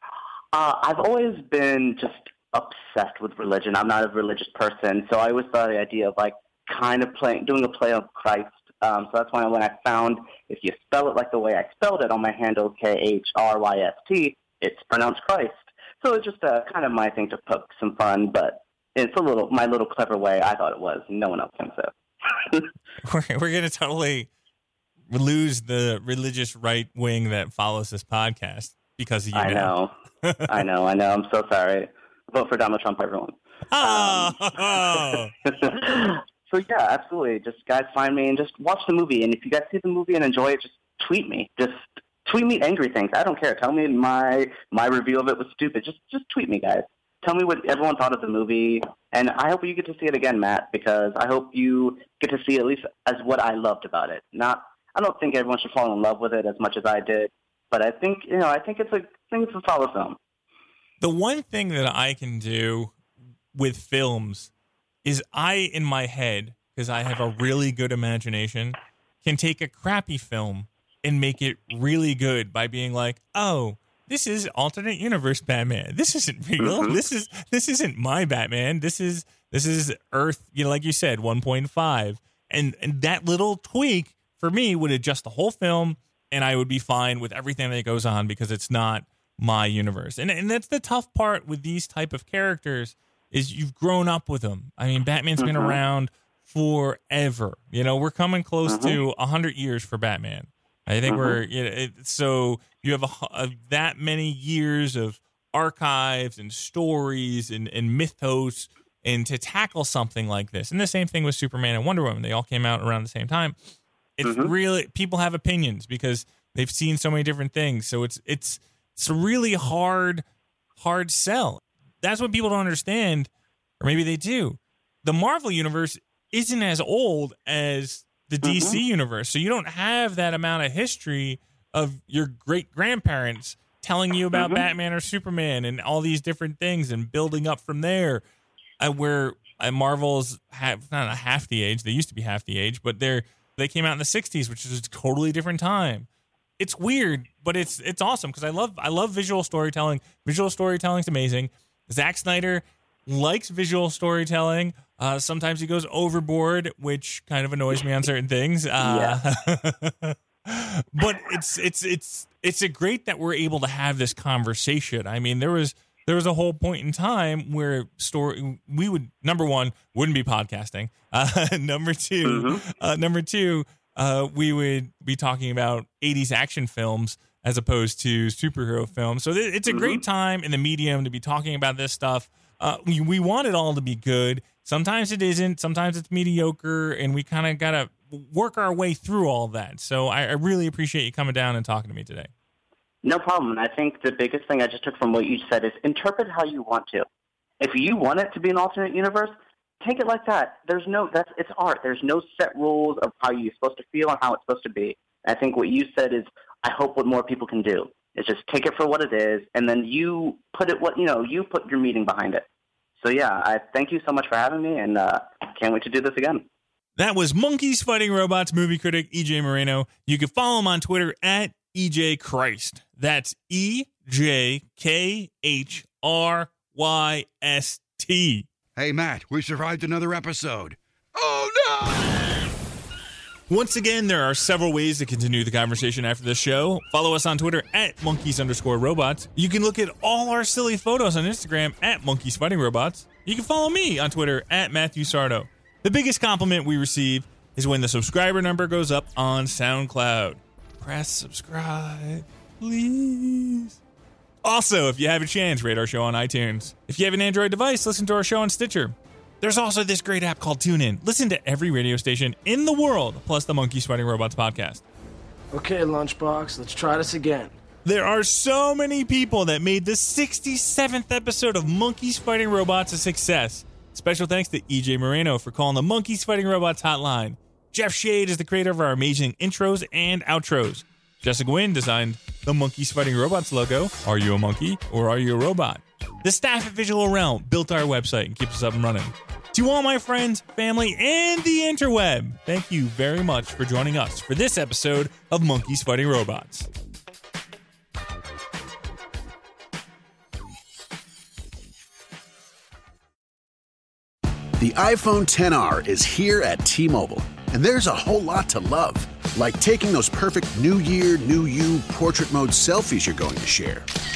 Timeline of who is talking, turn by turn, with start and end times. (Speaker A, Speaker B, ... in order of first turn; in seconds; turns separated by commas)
Speaker A: 0.5-22.7, Speaker B: 23.0-24.3, Speaker B: 25.1-30.5, Speaker A: 29.3-29.9, Speaker A: 30.5-60.2, Speaker B: 33.7-35.3, Speaker B: 61.0-62.9, Speaker B: 63.5-64.5, Speaker B: 65.0-113.5, Speaker A: 76.6-77.0, Speaker A: 95.4-95.8, Speaker A: 98.7-99.0, Speaker A: 101.1-101.4, Speaker B: 114.2-120.2, Speaker A: 114.2-114.5, Speaker B: 120.8-123.3, Speaker B: 123.8-138.2, Speaker A: 128.4-128.8, Speaker A: 134.3-134.6, Speaker B: 138.8-146.1, Speaker B: 146.6-192.3, Speaker A: 158.8-159.2, Speaker A: 172.2-172.6, Speaker A: 179.7-180.0, Speaker A: 193.0-197.1, Speaker A: 197.6-212.4, Speaker A: 213.0-216.4, Speaker B: 217.0-228.4, Speaker C: 228.8-232.4, Speaker B: 233.5-253.8, Speaker B: 254.4-264.8, Speaker D: 265.5-267.6, Speaker B: 267.8-296.7, Speaker E: 304.6-313.9